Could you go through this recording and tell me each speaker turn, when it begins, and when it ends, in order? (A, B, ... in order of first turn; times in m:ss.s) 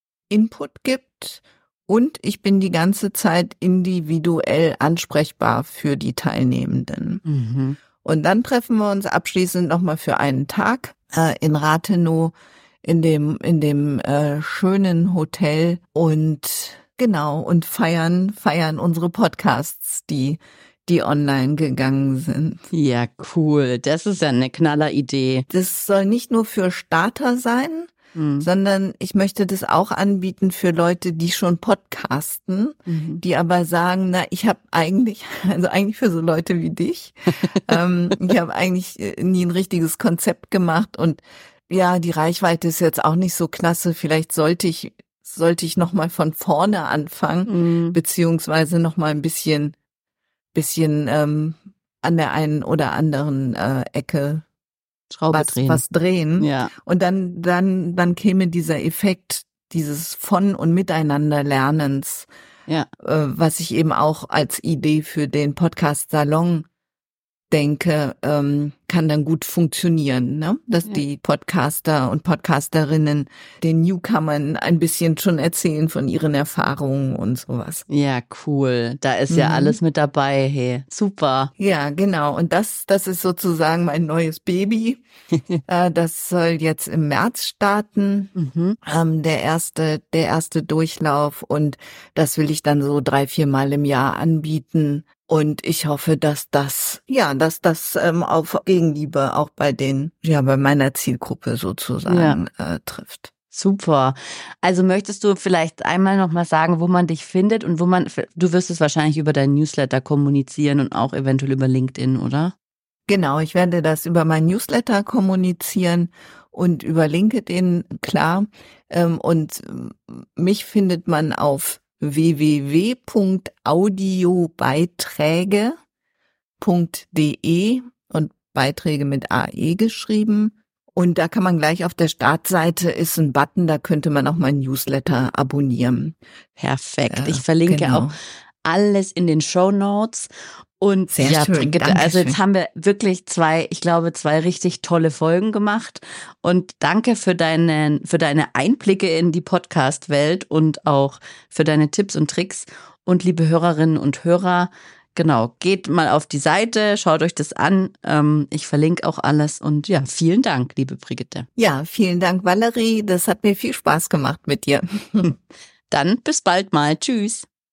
0:00.3-0:07.2 A
0:07.2-0:07.8 B
0:08.0-0:22.6 A
0:22.7-0:25.4 B
0:25.5-0:49.7 A
0:28.1-0:28.5 B
0:32.9-0:33.2 B
0:37.4-0:37.7 B
0:47.5-0:48.0 B
0:50.5-0:54.4 A
0:55.1-0:55.8 B
0:55.3-1:02.3 A
0:56.4-0:56.7 B
1:03.0-1:06.6 A
1:07.5-1:17.8 A
1:17.9-1:21.5 B
1:19.3-1:19.8 A
1:21.6-1:25.0 A
1:25.6-1:28.3 A
1:28.4-1:28.8 B
1:28.8-1:43.3 A
1:42.1-1:42.4 B
1:43.5-1:52.5 B
1:53.1-2:05.8 A
2:06.6-2:16.2 A
2:16.6-2:18.1 B
2:17.1-2:18.2 A
2:18.6-2:41.5 B
2:21.1-2:22.4 A
2:41.6-2:45.3 A
2:45.9-2:47.5 B